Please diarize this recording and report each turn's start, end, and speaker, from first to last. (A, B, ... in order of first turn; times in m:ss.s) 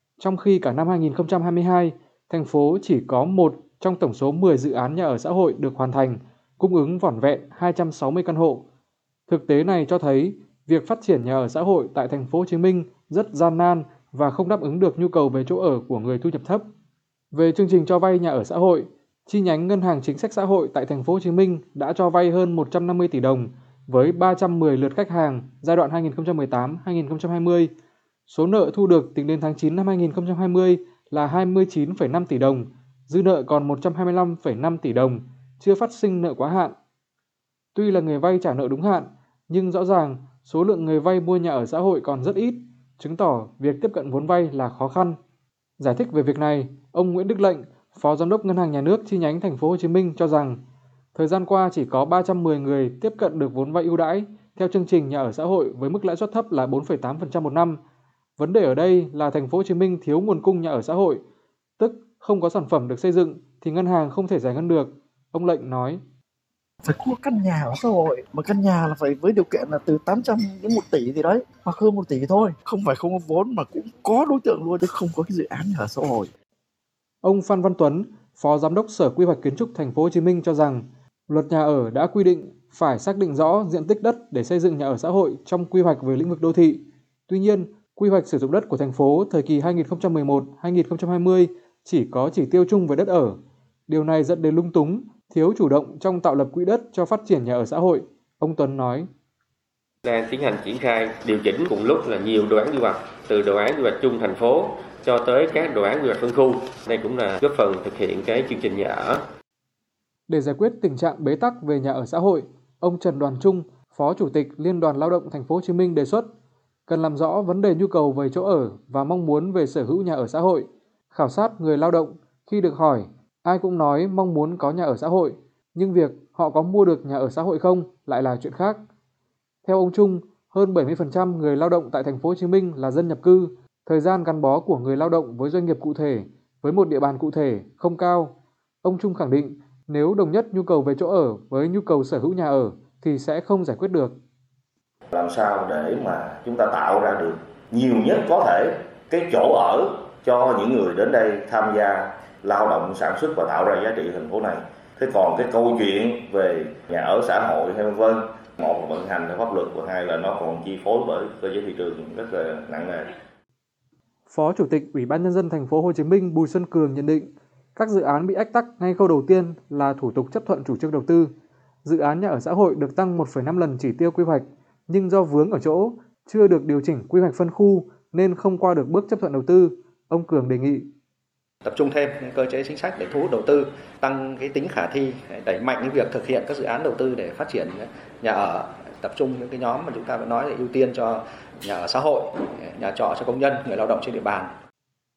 0:00.2-0:08.6 A
0:09.3-0:16.6 A
0:17.3-0:27.7 A
0:28.3-0:36.7 A
0:37.7-0:45.2 A
0:45.8-0:50.6 A
0:51.1-0:57.8 A
0:58.4-1:01.2 A
1:01.8-1:06.0 A
1:06.8-1:16.3 B
1:17.2-1:39.1 A
1:40.0-1:49.2 C
1:50.3-1:56.3 A
1:56.9-2:08.8 A
2:09.6-2:24.2 A
2:25.1-2:43.1 D
2:44.3-2:51.3 A
2:51.8-3:00.9 A
3:01.6-3:14.5 E